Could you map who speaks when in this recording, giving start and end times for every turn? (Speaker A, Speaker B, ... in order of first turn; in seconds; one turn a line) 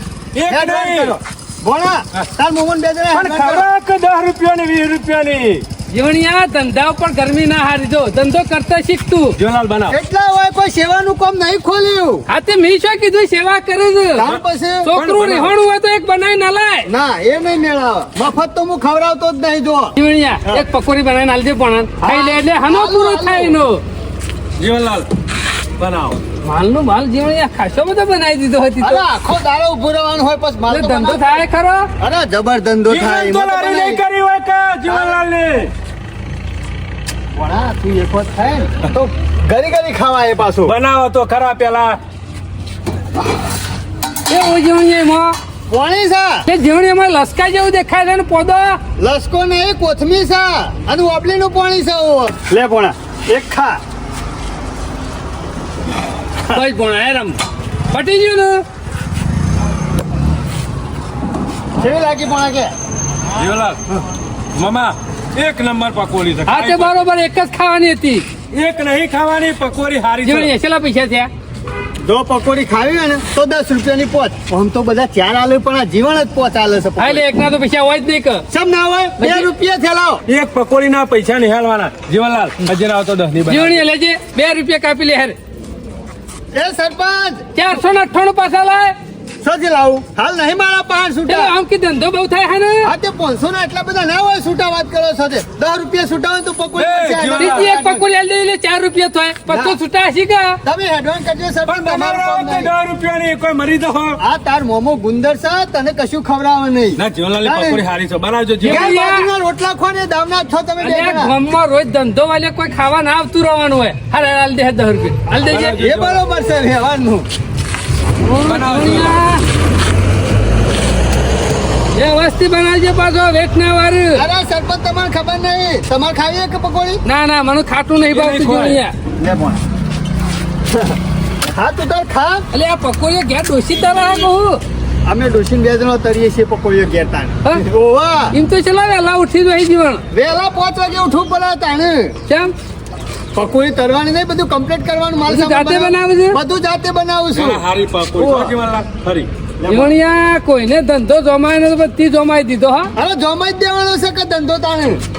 Speaker A: 0.3-1.2
Speaker B: 0.5-3.6
Speaker A: 3.1-5.6
Speaker C: 5.9-9.3
Speaker A: 9.4-9.9
Speaker B: 9.9-12.2
Speaker C: 12.3-14.3
Speaker B: 14.2-14.9
Speaker C: 14.8-16.9
Speaker A: 14.9-15.5
Speaker B: 16.9-19.9
Speaker C: 19.9-23.8
Speaker B: 22.0-23.6
Speaker A: 24.6-25.1
Speaker A: 25.8-26.2
Speaker C: 26.4-29.0
Speaker B: 28.8-31.3
Speaker C: 30.7-31.9
Speaker B: 32.0-34.0
Speaker A: 32.9-35.7
Speaker B: 34.9-35.1
Speaker B: 37.4-40.7
Speaker A: 40.6-42.0
Speaker C: 44.3-45.3
Speaker B: 45.7-46.4
Speaker C: 46.5-48.8
Speaker B: 49.0-53.8
Speaker C: 56.5-57.4
Speaker C: 57.9-58.6
Speaker B: 61.8-62.7
Speaker A: 63.3-63.8
Speaker A: 64.5-66.9
Speaker C: 66.5-68.3
Speaker A: 68.5-70.5
Speaker C: 70.2-71.3
Speaker B: 72.0-77.2
Speaker C: 77.0-78.4
Speaker B: 78.5-80.2
Speaker C: 79.2-79.5
Speaker A: 80.3-83.8
Speaker C: 83.5-85.3
Speaker B: 86.5-87.5
Speaker C: 87.5-88.9
Speaker B: 89.4-91.5
Speaker C: 91.3-92.9
Speaker B: 92.8-98.0
Speaker A: 96.8-97.7
Speaker C: 97.3-100.5
Speaker B: 99.5-99.8
Speaker B: 100.6-102.7
Speaker A: 101.7-104.2
Speaker B: 104.2-107.8
Speaker A: 107.0-108.9
Speaker C: 108.6-109.3
Speaker B: 108.6-111.3
Speaker C: 110.8-115.8
Speaker A: 115.4-116.2
Speaker B: 115.8-117.3
Speaker C: 118.2-119.4
Speaker A: 118.4-119.2
Speaker C: 121.9-124.2
Speaker B: 124.2-127.0
Speaker C: 127.0-128.9
Speaker A: 128.1-128.8
Speaker B: 129.2-129.6
Speaker B: 131.5-132.5
Speaker C: 132.5-134.6
Speaker B: 135.1-138.3
Speaker C: 138.3-140.0
Speaker B: 140.1-142.2
Speaker C: 142.3-142.5
Speaker B: 143.3-147.6
Speaker C: 145.3-146.4
Speaker A: 147.3-149.3
Speaker B: 148.2-148.5
Speaker C: 149.7-152.9
Speaker B: 152.9-155.0